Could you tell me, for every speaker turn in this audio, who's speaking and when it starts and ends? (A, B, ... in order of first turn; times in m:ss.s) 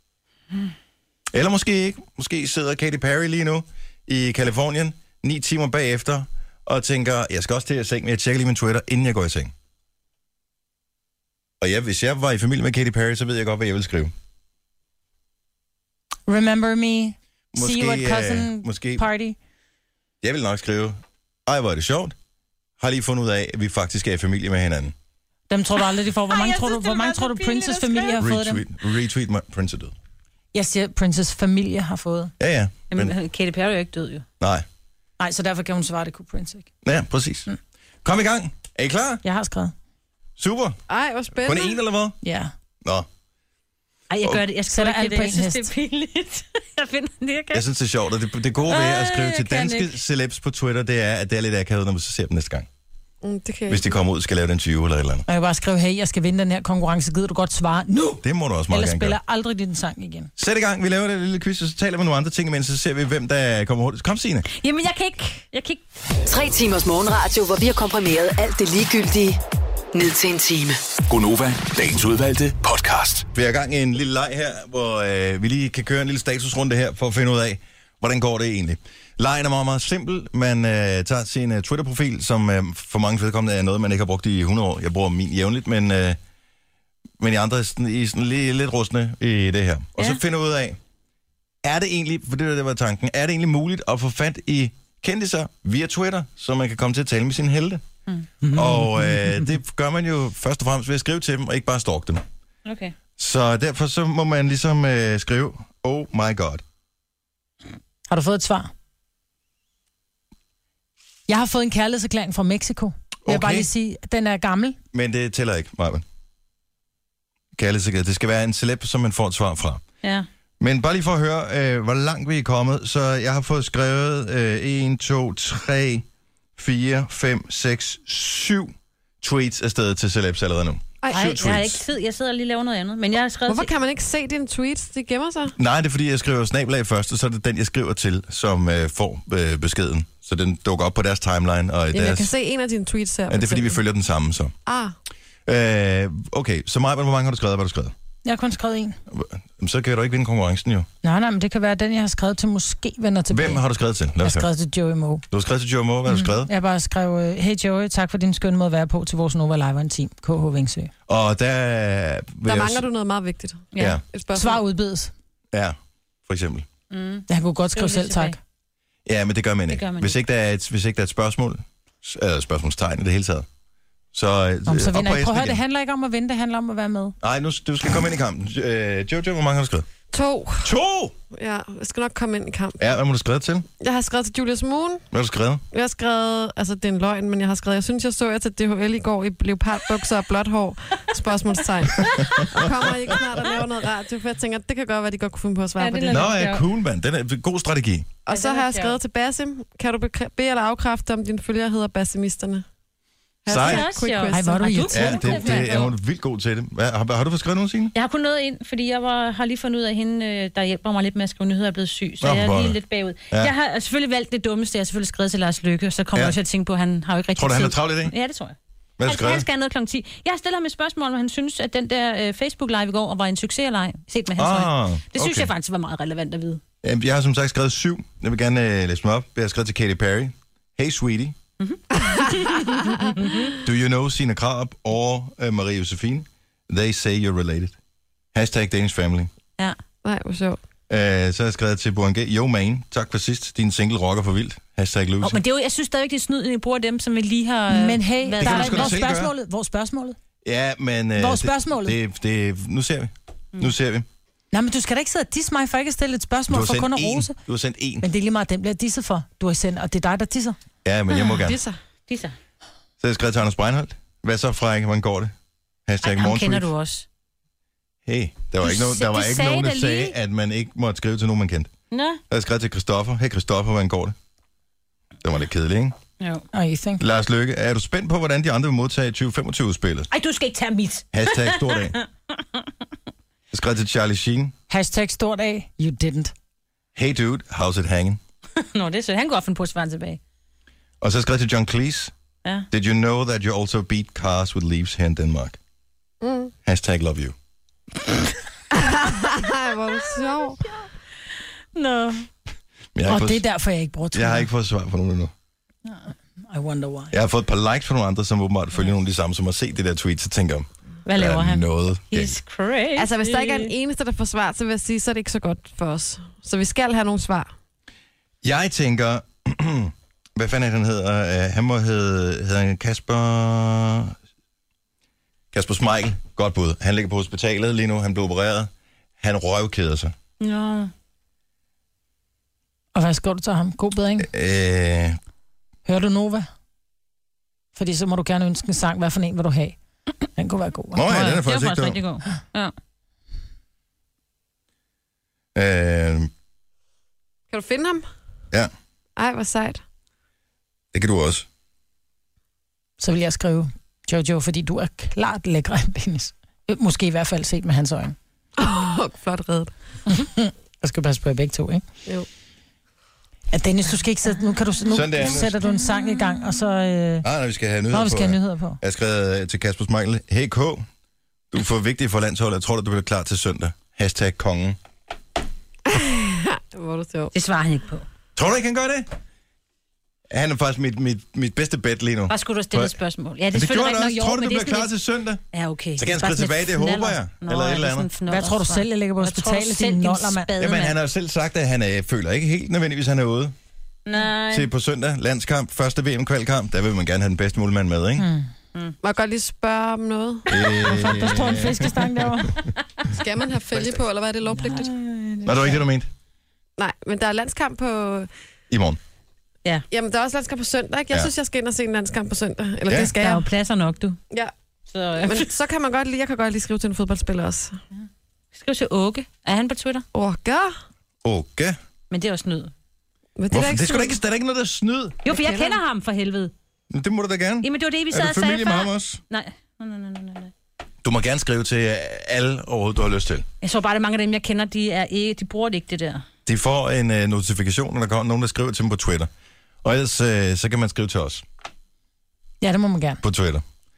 0:01.3-0:09.5 A
0:11.6-0:14.1 A
0:16.3-0:19.4 B
0:17.5-0:19.1 A
0:20.2-0:22.1 A
0:22.8-0:24.9 A
0:25.5-0:28.6 B
0:26.3-0:28.2 C
0:28.2-0:29.9 A
0:30.5-0:32.3 B
0:32.4-0:33.1 A
0:32.9-0:34.2 C
0:34.4-0:34.6 A
0:35.2-0:36.7 B
0:36.8-0:37.5 A
0:38.0-0:39.2 A
0:39.2-0:39.7 B
0:40.4-0:40.8 A
0:40.9-0:41.7 D
0:41.4-0:42.2 A
0:42.2-0:42.5 B
0:44.1-0:47.6 C
0:44.7-0:45.7 B
0:47.5-0:52.7 A
0:48.6-0:49.9 C
0:53.2-0:53.9 D
0:53.7-0:55.2 A
0:55.3-1:00.3 B
0:58.2-0:59.2 A
1:00.4-1:04.5 A
1:04.5-1:05.8 C
1:06.2-1:09.4 E
1:09.9-1:10.8 E
1:11.1-1:13.3 F
1:13.3-1:26.2 A
1:27.2-1:30.8 A
1:31.6-1:37.8 A
1:38.4-1:39.5 B
1:38.5-1:42.2 A
1:42.6-1:42.9 C
1:43.2-1:46.6 A
1:48.1-1:48.7 B
1:51.3-1:54.8 B
1:53.2-1:53.7 A
1:54.9-1:56.0 A
1:57.5-1:59.8 A
2:00.6-2:06.0 A
2:06.6-2:11.8 A
2:11.1-2:13.7 C
2:13.5-2:15.5 D
2:15.6-2:22.3 A
2:21.9-2:23.8 D
2:23.3-2:24.5 A
2:24.6-2:25.0 D
2:25.4-2:27.9 A
2:28.2-2:29.0 B
2:29.1-2:30.9 A
2:31.0-2:33.6 B
2:33.3-2:34.5 A
2:34.2-2:35.2 B
2:35.3-2:36.5 A
2:36.1-2:40.9 B
2:41.1-2:42.8 A
2:42.4-2:44.6 D
2:43.7-2:44.0 C
2:43.8-2:44.0 A
2:44.3-2:45.1 B
2:45.5-2:46.6 A
2:46.9-2:48.4 C
2:47.3-2:48.4 B
2:49.0-2:53.5 A
2:49.7-2:50.2 C
2:54.1-2:55.6 A
2:54.7-2:57.1 B
2:57.2-2:59.9 A
3:00.1-3:00.7 D
3:00.6-3:01.1 A
3:01.3-3:02.8 D
3:02.8-3:03.7 A
3:03.8-3:05.0 D
3:05.1-3:05.6 A
3:05.7-3:16.3 D
3:12.0-3:12.9 A
3:15.8-3:16.6 C
3:16.1-3:18.1 A
3:18.2-3:22.6 D
3:18.3-3:19.0 C
3:23.4-3:25.6 D
3:23.5-3:23.9 A
3:23.5-3:25.9 C
3:24.3-3:25.4 B
3:24.9-3:27.9 A
3:27.9-3:46.6 C
3:32.2-3:32.8 A
3:37.4-3:38.1 A
3:39.0-3:39.5 A
3:44.4-3:45.5 A
3:46.8-3:51.4 A
3:51.6-3:53.5 C
3:53.6-3:57.8 A
3:58.3-3:59.3 A
4:00.0-4:00.6 D
4:00.9-4:05.4 A
4:05.2-4:09.0 C
4:07.7-4:10.2 B
4:08.4-4:09.3 A
4:10.4-4:14.1 A
4:11.2-4:12.0 B
4:14.5-4:17.4 B
4:16.5-4:18.0 A
4:18.0-4:20.6 B
4:20.8-4:21.6 A
4:21.4-4:21.8 D
4:22.1-4:22.4 C
4:23.0-4:25.3 A
4:25.9-4:26.7 A
4:26.0-4:27.0 C
4:28.0-4:31.7 A
4:28.6-4:30.1 C
4:31.9-4:32.2 C
4:32.3-4:34.1 A
4:35.2-4:36.0 A
4:36.2-4:36.4 C
4:36.5-4:37.0 B
4:37.0-4:40.1 A
4:40.1-4:42.0 C
4:41.1-4:42.0 A
4:43.5-4:44.5 A
4:44.7-4:46.3 B
4:46.9-4:48.2 A
4:48.6-4:50.2 C
4:51.0-4:52.1 A
4:52.7-4:55.6 A
4:56.2-4:56.5 D
4:56.6-4:57.3 A
4:58.7-5:00.6 D
5:01.7-5:02.3 C
5:02.9-5:03.4 A
5:03.0-5:04.5 B
5:04.1-5:05.3 A
5:05.9-5:07.1 B
5:07.1-5:12.4 A
5:11.0-5:13.7 C
5:13.0-5:17.5 D
5:18.4-5:24.1 A
5:25.5-5:30.1 A
5:30.4-5:30.9 C
5:32.9-5:34.3 B
5:34.2-5:35.2 A
5:35.8-5:36.5 B
5:37.7-5:39.8 B
5:40.4-5:41.0 B
5:40.9-5:42.0 A
5:41.1-5:42.7 C
5:45.5-5:46.3 A
5:47.5-5:48.0 D
5:49.2-5:49.8 D
5:50.9-5:51.4 A
5:53.0-5:58.2 B
5:58.6-5:59.7 D
6:00.1-6:01.8 B
6:03.5-6:07.2 B
6:04.9-6:05.6 A
6:07.2-6:10.8 A
6:07.9-6:08.8 B
6:11.5-6:14.8 A
6:15.9-6:17.3 D
6:17.3-6:18.0 C
6:18.4-6:19.1 A
6:20.3-6:23.0 A
6:22.3-6:24.9 C
6:23.5-6:25.4 A
6:25.5-6:31.0 C
6:26.0-6:28.1 A
6:28.3-6:30.5 B
6:30.6-6:33.5 A
6:34.0-6:34.7 C
6:34.5-6:38.2 A
6:38.2-6:38.5 B
6:39.0-6:40.5 D
6:40.5-6:42.1 A
6:40.8-6:42.6 B
6:43.1-6:44.9 D
6:43.7-6:44.0 A
6:44.5-6:45.8 C
6:45.4-6:46.1 A
6:46.8-6:48.3 D
6:48.7-6:49.0 A
6:49.9-6:53.5 D
6:52.9-6:53.1 A
6:53.0-6:54.2 C
6:54.9-6:55.5 C
6:55.2-6:57.8 D
6:58.5-7:00.0 C
7:00.1-7:00.7 D
7:01.2-7:01.8 A
7:02.1-7:02.7 C
7:03.4-7:04.1 D
7:03.5-7:05.2 A
7:05.2-7:06.5 C
7:05.3-7:05.8 D
7:06.9-7:09.2 A
7:07.6-7:10.5 C
7:11.0-7:13.4 A
7:13.6-7:16.2 C
7:16.4-7:19.3 A
7:19.8-7:21.4 A
7:22.6-7:23.2 B
7:23.2-7:23.6 A